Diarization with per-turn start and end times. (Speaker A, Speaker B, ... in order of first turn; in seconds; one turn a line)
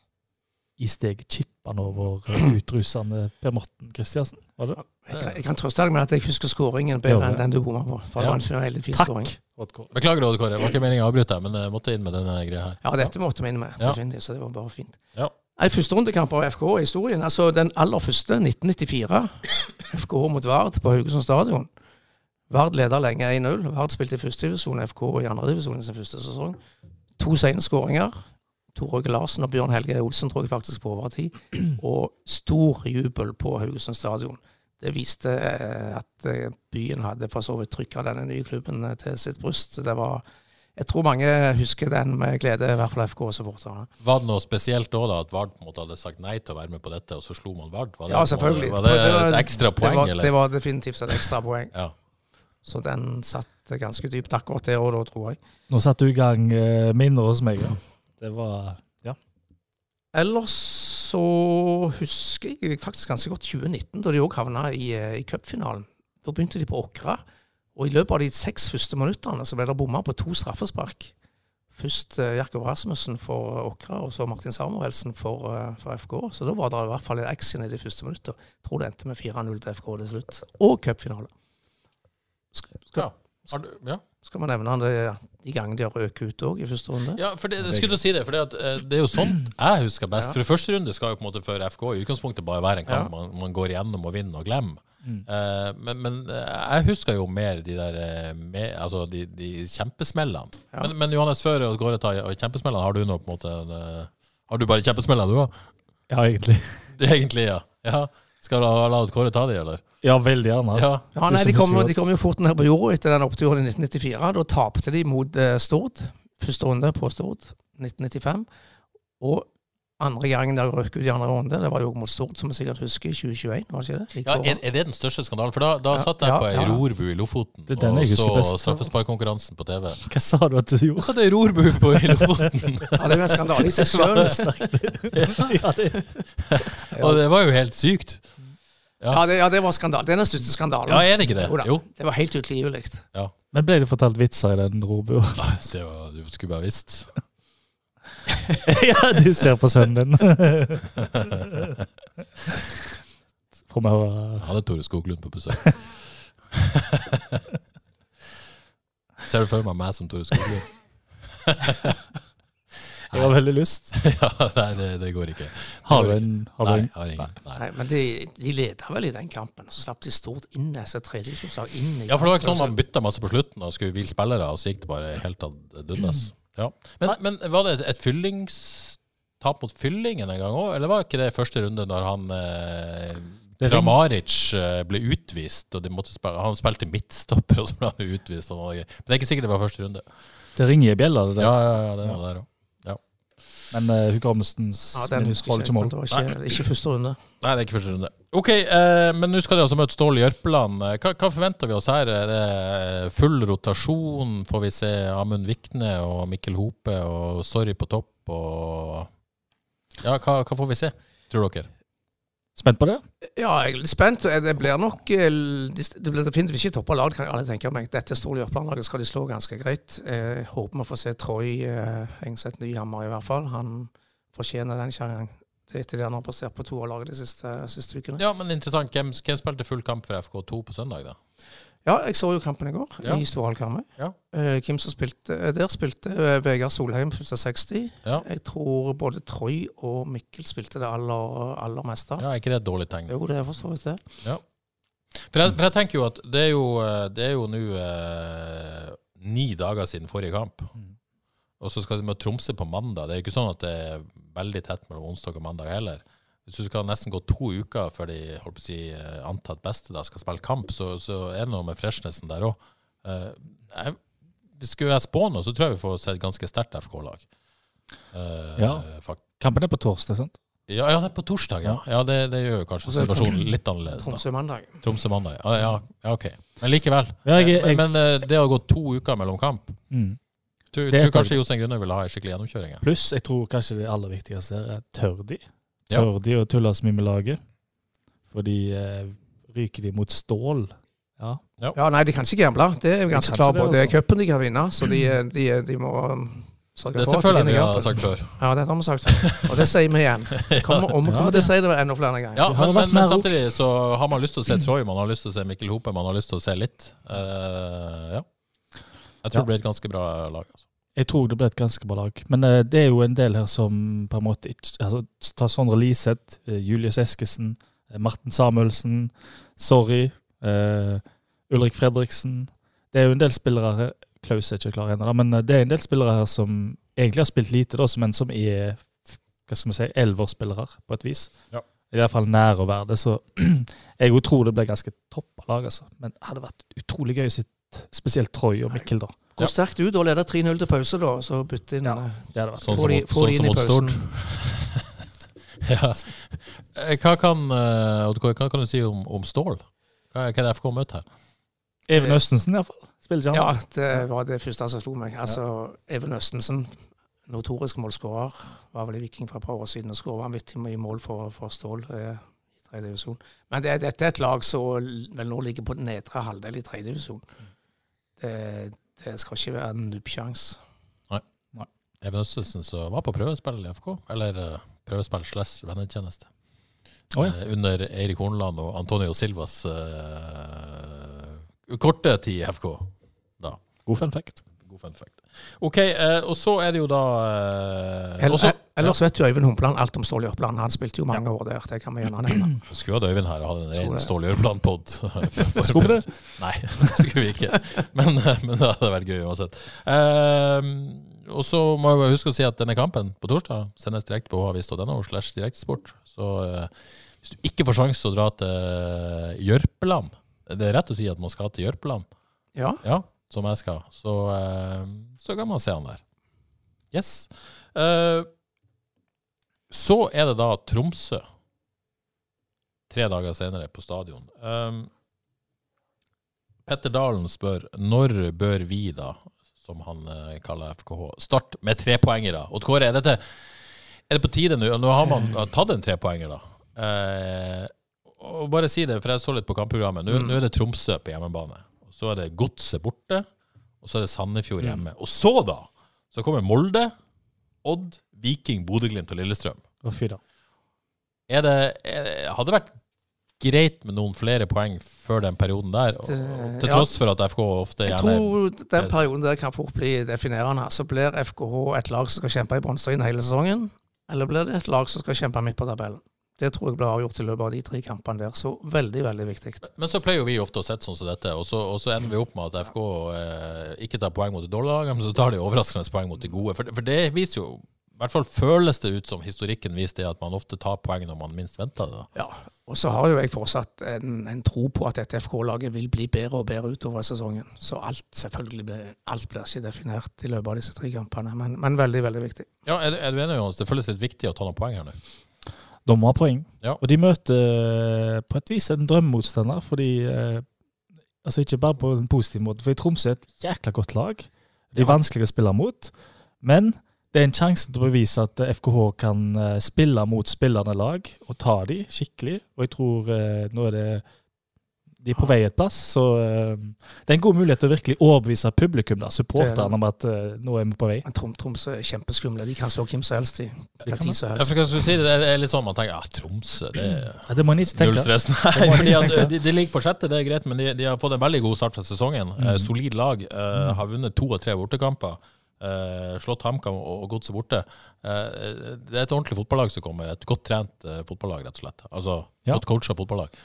Speaker A: 0.8-4.8
Speaker B: 4.8-9.3
Speaker A: 7.1-7.5
Speaker A: 8.9-9.9
Speaker C: 9.9-13.1
Speaker B: 12.8-15.0
Speaker B: 15.6-21.7
Speaker B: 22.5-26.6
Speaker B: 27.2-28.1
Speaker B: 28.8-40.2
Speaker B: 40.8-43.9
Speaker C: 44.0-50.3
Speaker B: 48.1-51.7
Speaker B: 52.6-55.4
Speaker A: 55.7-59.2
Speaker B: 60.1-67.2
Speaker B: 67.8-71.1
Speaker B: 71.8-81.3
Speaker B: 82.5-83.1
Speaker C: 83.0-84.0
Speaker B: 84.2-87.2
Speaker C: 87.2-105.5
Speaker A: 87.6-88.0
Speaker A: 106.1-106.8
Speaker C: 106.9-109.8
Speaker A: 110.0-112.0
Speaker C: 110.7-111.0
Speaker B: 111.2-118.5
Speaker B: 119.2-119.5
Speaker B: 120.0-124.6
Speaker C: 124.2-130.0
Speaker B: 125.9-126.8
Speaker A: 127.7-128.9
Speaker A: 130.0-131.2
Speaker C: 131.0-134.3
Speaker A: 131.9-132.8
Speaker B: 133.0-134.5
Speaker A: 134.1-136.1
Speaker C: 135.1-135.6
Speaker C: 136.5-138.3
Speaker B: 139.1-143.1
Speaker C: 140.9-141.8
Speaker A: 143.5-145.5
Speaker C: 145.4-147.1
Speaker A: 148.7-150.9
Speaker C: 151.0-151.8
Speaker A: 153.7-154.5
Speaker C: 154.4-156.0
Speaker C: 156.5-157.4
Speaker C: 159.2-160.7
Speaker C: 161.3-162.0
Speaker A: 163.1-163.9
Speaker C: 163.9-167.6
Speaker A: 165.9-167.3
Speaker B: 167.6-172.8
Speaker C: 172.1-190.1
Speaker A: 183.6-184.0
Speaker A: 190.6-192.2
Speaker C: 191.4-193.0
Speaker A: 193.7-196.2
Speaker B: 194.9-197.2
Speaker C: 197.4-209.1
Speaker C: 210.0-211.7
Speaker A: 212.6-213.0
Speaker B: 213.4-228.2
Speaker C: 228.2-231.2
Speaker B: 231.8-242.3
Speaker C: 242.2-243.2
Speaker B: 243.1-244.1
Speaker C: 245.2-250.7
Speaker C: 251.6-264.0
Speaker C: 264.6-267.2
Speaker C: 268.1-269.2
Speaker A: 268.6-268.9
Speaker A: 269.4-270.4
Speaker C: 270.7-274.2
Speaker B: 272.9-274.8
Speaker C: 274.8-279.8
Speaker A: 277.2-277.9
Speaker A: 279.9-280.2
Speaker C: 280.7-282.8
Speaker A: 280.9-281.4
Speaker A: 282.8-287.4
Speaker A: 288.3-291.4
Speaker B: 291.8-302.5
Speaker A: 293.1-293.9
Speaker C: 296.9-298.4
Speaker C: 299.1-299.7
Speaker C: 300.4-300.9
Speaker A: 301.1-301.5
Speaker C: 302.4-308.2
Speaker A: 302.5-303.3
Speaker C: 309.2-310.6
Speaker A: 311.0-331.3
Speaker A: 331.9-339.2
Speaker B: 339.4-344.0
Speaker A: 341.8-342.8
Speaker C: 342.6-344.9
Speaker C: 345.6-351.1
Speaker A: 351.9-354.0
Speaker B: 351.9-352.2
Speaker B: 353.3-356.8
Speaker B: 357.3-367.3
Speaker B: 368.2-370.6
Speaker C: 372.0-376.3
Speaker C: 377.2-383.6
Speaker A: 383.9-384.4
Speaker C: 384.6-389.0
Speaker B: 388.2-392.6
Speaker C: 392.7-412.1
Speaker B: 393.8-394.1
Speaker A: 395.6-396.1
Speaker B: 412.6-412.8
Speaker C: 412.8-416.0
Speaker C: 416.9-418.3
Speaker C: 419.7-421.2
Speaker C: 422.9-424.9
Speaker C: 426.7-433.6
Speaker C: 434.1-443.3
Speaker B: 440.1-440.4
Speaker C: 443.8-446.9
Speaker C: 447.6-449.6
Speaker A: 449.8-450.2
Speaker C: 451.3-452.8
Speaker C: 453.4-458.9
Speaker B: 456.1-456.9
Speaker B: 457.9-469.7
Speaker C: 469.6-482.1
Speaker B: 482.1-492.5
Speaker C: 492.7-495.0
Speaker A: 495.9-500.5
Speaker A: 501.2-514.0
Speaker A: 515.0-521.0
Speaker B: 519.4-519.7
Speaker B: 521.0-524.6
Speaker A: 523.9-524.1
Speaker C: 524.3-543.3
Speaker A: 527.3-529.3
Speaker A: 532.4-532.7